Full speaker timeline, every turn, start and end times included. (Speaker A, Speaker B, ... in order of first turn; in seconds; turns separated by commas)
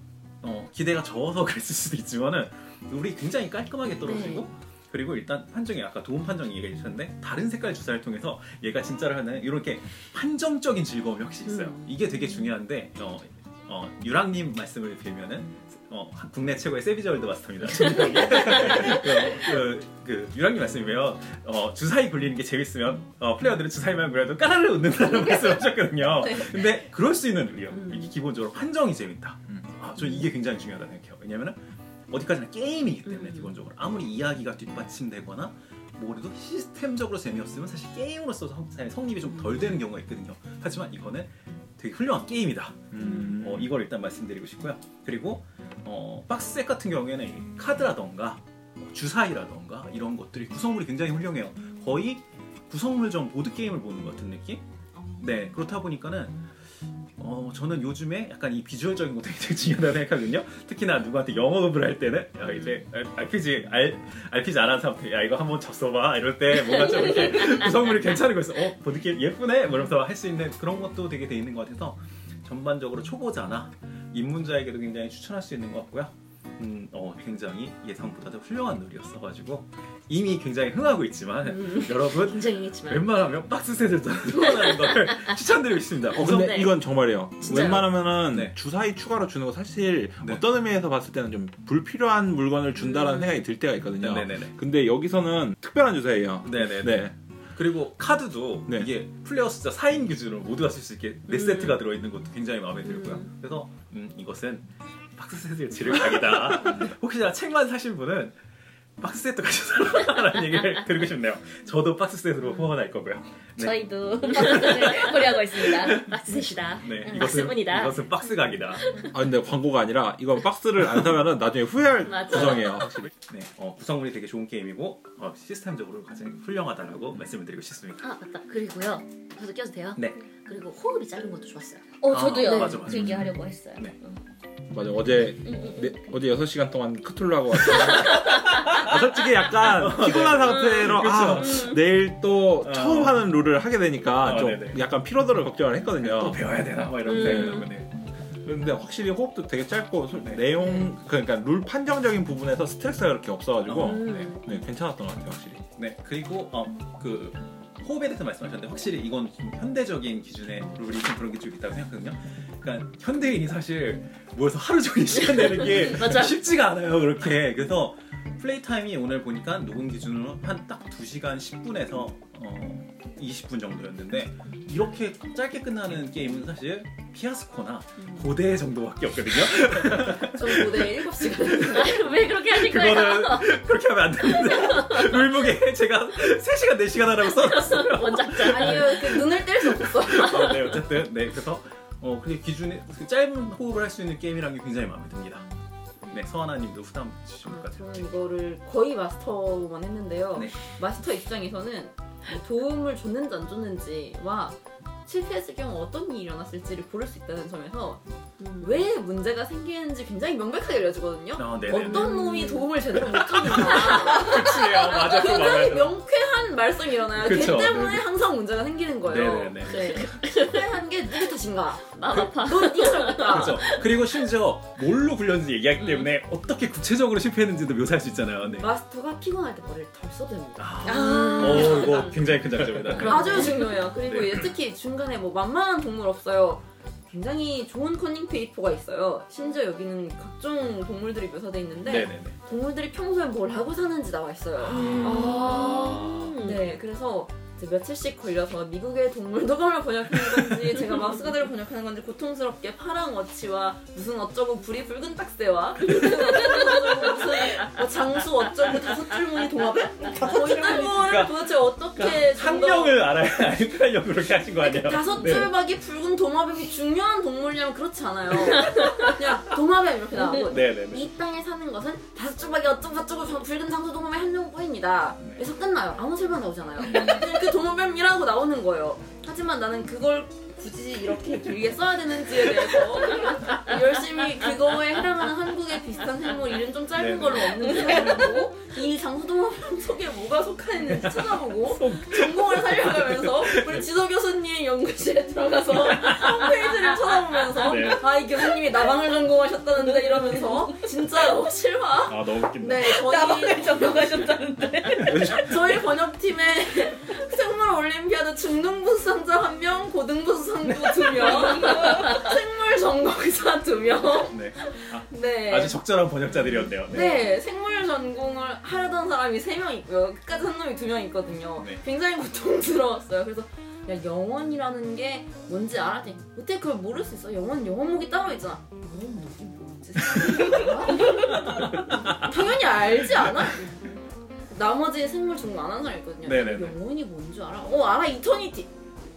Speaker A: 0.4-54.6, Speaker B: 4.0-4.5, Speaker B: 11.5-11.9, Speaker B: 27.8-28.1, Speaker C: 42.9-43.7, Speaker A: 55.2-56.5, Speaker A: 57.2-86.7, Speaker B: 81.5-83.1, Speaker B: 84.4-85.3, Speaker C: 86.2-97.2, Speaker B: 86.2-86.7, Speaker B: 87.4-87.8, Speaker A: 87.4-88.5, Speaker A: 94.0-94.6, Speaker A: 96.4-108.4, Speaker B: 103.0-103.2, Speaker A: 109.0-115.0, Speaker D: 113.6-116.1, Speaker B: 114.3-115.0, Speaker A: 115.6-116.0, Speaker B: 115.7-118.0, Speaker A: 116.8-118.9, Speaker C: 119.1-123.1, Speaker B: 122.1-122.6, Speaker A: 123.3-128.1, Speaker B: 128.0-132.8, Speaker A: 130.0-130.2, Speaker D: 132.0-133.9, Speaker A: 132.1-134.0, Speaker C: 132.9-133.3, Speaker C: 134.7-146.4, Speaker A: 139.6-141.8, Speaker A: 142.6-143.2, Speaker A: 144.2-144.8, Speaker A: 146.0-147.9, Speaker B: 147.1-147.7, Speaker C: 148.4-155.6, Speaker A: 150.2-150.5, Speaker A: 153.7-154.4, Speaker B: 154.1-154.4, Speaker A: 155.8-181.5, Speaker B: 165.4-166.4, Speaker E: 180.2-182.1, Speaker B: 181.7-183.5, Speaker A: 182.5-195.5, Speaker B: 184.5-185.1, Speaker B: 187.6-189.0, Speaker E: 188.4-190.5, Speaker A: 196.1-198.1, Speaker E: 197.4-208.0, Speaker E: 208.6-223.7, Speaker A: 211.4-212.1, Speaker B: 211.8-212.6, Speaker A: 213.3-216.0, Speaker A: 217.2-218.1, Speaker A: 219.1-220.1, Speaker B: 219.7-220.6, Speaker B: 221.9-223.8, Speaker A: 223.3-228.7, Speaker E: 228.6-231.9, Speaker A: 230.6-234.5, Speaker D: 230.9-232.0, Speaker B: 231.0-232.1, Speaker E: 233.0-263.1, Speaker B: 233.1-233.5, Speaker A: 241.9-242.4, Speaker A: 244.7-246.3, Speaker B: 244.8-246.6, Speaker D: 260.1-261.0, Speaker A: 260.8-265.6, Speaker E: 264.6-304.3, Speaker A: 270.4-271.1, Speaker A: 287.0-288.1, Speaker A: 290.9-293.9, Speaker A: 295.7-296.4, Speaker A: 297.6-298.1, Speaker A: 302.1-302.9, Speaker D: 302.8-305.6, Speaker A: 305.1-305.6, Speaker E: 305.2-315.8, Speaker A: 314.2-317.3, Speaker E: 316.9-333.7, Speaker A: 321.6-321.8, Speaker E: 334.5-338.7, Speaker A: 336.2-336.8